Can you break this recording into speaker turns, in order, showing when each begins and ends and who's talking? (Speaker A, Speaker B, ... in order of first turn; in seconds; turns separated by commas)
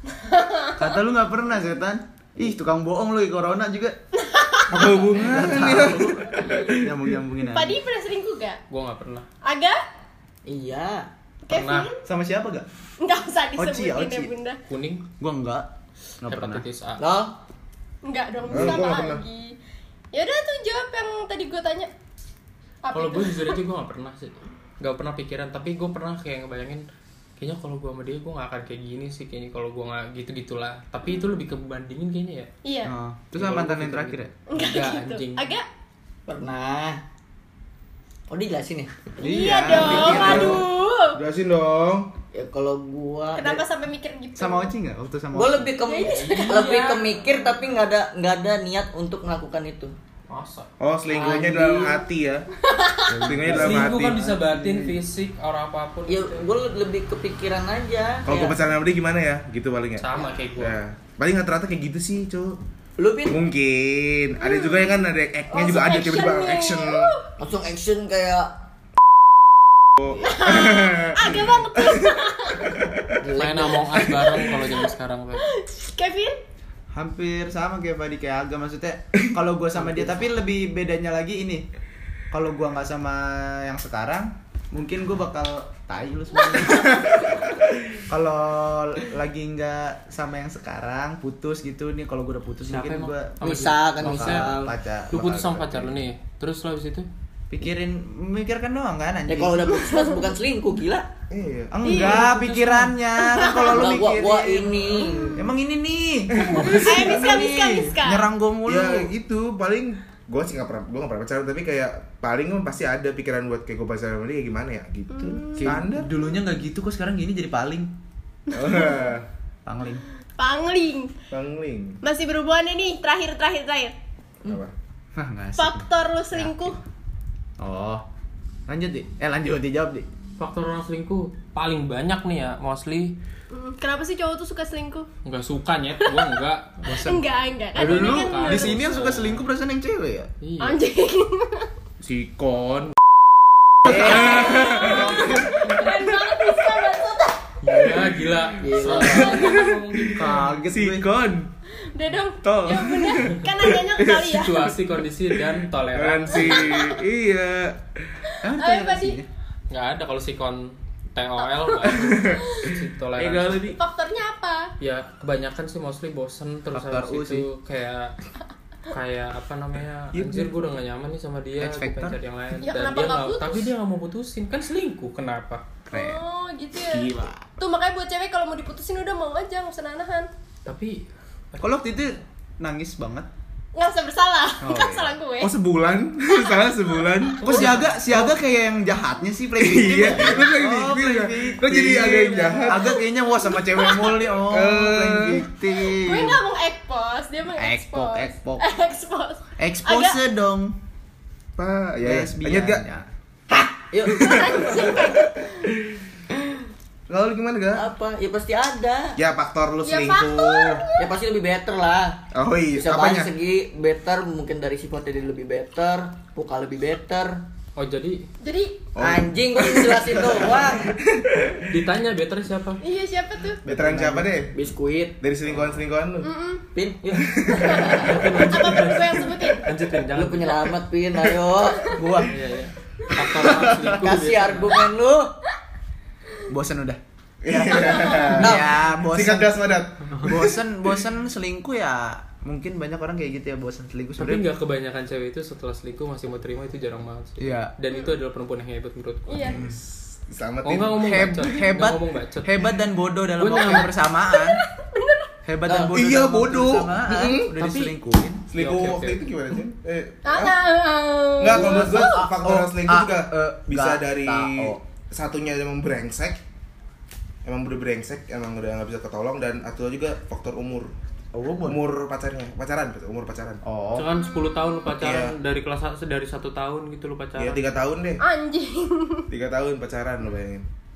Speaker A: 0.1-0.9, Speaker B: 0.8-4.0, Speaker A: 4.2-4.9, Speaker C: 4.7-6.9, Speaker B: 4.9-7.8, Speaker D: 5.6-6.0, Speaker A: 6.4-6.6, Speaker A: 7.5-8.6, Speaker E: 8.7-9.3, Speaker A: 9.4-9.8, Speaker D: 10.5-11.1, Speaker A: 11.5-12.0, Speaker E: 11.5-11.9, Speaker B: 12.0-12.7, Speaker A: 13.0-14.6, Speaker B: 13.6-14.3, Speaker E: 14.7-15.1, Speaker B: 15.2-15.7, Speaker B: 16.2-16.6, Speaker E: 16.2-17.1, Speaker D: 17.0-17.4, Speaker A: 18.0-19.6, Speaker C: 18.5-19.2, Speaker B: 18.5-18.8, Speaker A: 20.1-21.9, Speaker A: 22.8-23.6, Speaker E: 22.9-26.9, Speaker E: 27.4-32.5, Speaker A: 32.6-32.9, Speaker B: 32.9-34.3, Speaker E: 33.4-35.5, Speaker A: 34.5-35.7, Speaker D: 36.3-37.0, Speaker D: 38.3-39.2, Speaker A: 39.2-41.2, Speaker B: 39.2-40.6, Speaker C: 39.8-40.6, Speaker C: 41.2-42.1, Speaker D: 42.3-43.6, Speaker A: 43.4-44.7, Speaker B: 44.4-45.8, Speaker D: 45.3-50.0, Speaker A: 45.9-46.8, Speaker E: 46.0-47.3, Speaker E: 50.3-50.7, Speaker C: 50.8-52.5, Speaker D: 51.1-52.0, Speaker A: 52.6-53.3, Speaker B: 53.1-54.1, Speaker C: 53.2-54.8, Speaker E: 53.5-56.5, Speaker D: 56.1-58.6, Speaker C: 58.2-60.0, Speaker E: 60.0-60.8, Speaker C: 60.6-62.6, Speaker D: 63.0-63.4, Speaker C: 63.3-67.1, Speaker A: 64.4-65.0, Speaker A: 65.5-67.3, Speaker D: 67.4-68.5, Speaker C: 70.0-72.1, Speaker A: 70.2-72.8, Speaker D: 73.2-74.2, Speaker E: 73.4-75.5, Speaker A: 74.4-74.7, Speaker A: 75.4-76.4, Speaker B: 76.9-81.7, Speaker D: 79.8-80.1, Speaker B: 82.3-87.0, Speaker C: 86.8-87.1, Speaker B: 88.1-95.5, Speaker E: 92.6-97.1, Speaker D: 93.4-94.7, Speaker C: 95.1-95.9, Speaker B: 97.5-99.9, Speaker D: 99.3-101.1, Speaker C: 101.3-102.0, Speaker B: 101.7-109.1, Speaker A: 101.8-102.3, Speaker E: 101.9-102.9, Speaker A: 103.2-103.8, Speaker D: 103.6-105.4, Speaker A: 105.0-105.4, Speaker C: 106.3-107.2, Speaker A: 106.4-108.3, Speaker C: 108.7-116.1, Speaker A: 115.1-115.7, Speaker B: 115.6-117.9, Speaker A: 118.5-119.1, Speaker C: 118.5-119.3, Speaker B: 119.7-120.0, Speaker A: 120.4-121.1, Speaker C: 121.3-122.0, Speaker A: 122.0-123.9, Speaker C: 124.5-124.7, Speaker B: 125.2-126.5, Speaker A: 125.6-126.8, Speaker B: 127.6-128.0, Speaker B: 128.7-130.1, Speaker E: 130.4-133.2, Speaker A: 133.5-135.1, Speaker E: 135.2-136.8, Speaker A: 136.0-136.4, Speaker B: 136.9-137.2, Speaker A: 136.9-138.9, Speaker B: 137.8-140.3, Speaker E: 137.8-139.5, Speaker E: 140.4-140.8, Speaker A: 140.6-141.7, Speaker C: 142.0-142.9, Speaker B: 143.8-145.2, Speaker C: 143.8-145.5, Speaker A: 143.8-147.4, Speaker E: 143.9-145.3, Speaker E: 147.6-150.6, Speaker D: 148.6-149.6, Speaker C: 149.0-151.5, Speaker B: 150.1-151.1, Speaker A: 151.9-154.7, Speaker B: 152.4-153.2, Speaker C: 153.2-154.5, Speaker E: 154.2-156.7, Speaker C: 155.4-158.2, Speaker A: 156.4-156.9, Speaker B: 158.4-159.3, Speaker A: 158.6-159.2, Speaker E: 159.7-163.8, Speaker C: 161.9-162.5, Speaker A: 162.4-162.7, Speaker B: 163.2-163.8, Speaker A: 163.8-164.7, Speaker E: 164.8-168.2, Speaker B: 166.7-167.5, Speaker E: 168.9-175.7, Speaker C: 170.1-170.6, Speaker B: 171.6-172.2, Speaker A: 172.6-173.7, Speaker A: 175.9-180.3, Speaker B: 175.9-176.2, Speaker C: 176.8-177.5, Speaker E: 180.7-181.8, Speaker B: 181.6-183.3, Speaker A: 183.8-185.5, Speaker B: 184.6-185.1, Speaker C: 185.4-188.3, Speaker E: 187.4-188.0, Speaker B: 187.4-196.4, Speaker C: 189.6-193.0, Speaker A: 192.6-194.2, Speaker C: 194.2-195.5, Speaker A: 195.9-200.2, Speaker B: 197.6-198.6, Speaker B: 199.6-200.8, Speaker C: 201.6-202.8, Speaker B: 202.0-203.1, Speaker D: 203.5-205.1, Speaker C: 204.1-206.0, Speaker A: 204.2-205.7, Speaker C: 207.1-207.9, Speaker D: 207.8-209.2, Speaker C: 209.2-210.8, Speaker A: 209.8-211.2, Speaker D: 211.0-212.2, Speaker C: 212.3-213.3, Speaker D: 212.8-217.4, Speaker E: 217.8-218.3, Speaker A: 218.4-218.8, Speaker C: 218.9-221.7, Speaker D: 219.0-221.0, Speaker E: 221.7-222.8, Speaker A: 222.8-223.6, Speaker C: 223.7-224.5, Speaker B: 223.7-224.3, Speaker D: 224.5-225.2, Speaker C: 225.2-226.3, Speaker E: 225.4-225.8, Speaker A: 226.2-226.7, Speaker D: 226.7-228.2, Speaker C: 227.2-227.9, Speaker A: 227.6-229.7, Speaker E: 227.8-230.7, Speaker D: 230.1-232.3, Speaker A: 231.7-232.0, Speaker E: 232.2-234.9, Speaker D: 233.8-235.3, Speaker B: 236.5-237.0, Speaker C: 237.4-240.6, Speaker B: 237.5-239.6, Speaker A: 237.9-238.4, Speaker D: 238.4-238.7, Speaker B: 240.2-244.5, Speaker E: 244.2-249.5, Speaker B: 247.4-247.7, Speaker A: 249.3-249.7, Speaker C: 249.4-251.2, Speaker E: 250.7-252.7, Speaker B: 251.0-254.6, Speaker E: 253.3-253.9, Speaker A: 253.8-255.3, Speaker B: 255.4-258.4, Speaker D: 255.7-255.9, Speaker C: 255.9-257.5, Speaker E: 257.6-257.9, Speaker C: 258.5-260.6, Speaker E: 258.5-259.2, Speaker A: 260.2-262.2, Speaker C: 261.4-266.4, Speaker B: 261.5-264.8, Speaker C: 267.4-270.9, Speaker B: 271.3-271.8, Speaker C: 271.6-273.6, Speaker B: 273.6-274.1, Speaker E: 273.9-277.8, Speaker C: 275.0-275.3, Speaker C: 277.4-278.2, Speaker A: 278.2-279.3, Speaker C: 279.3-280.7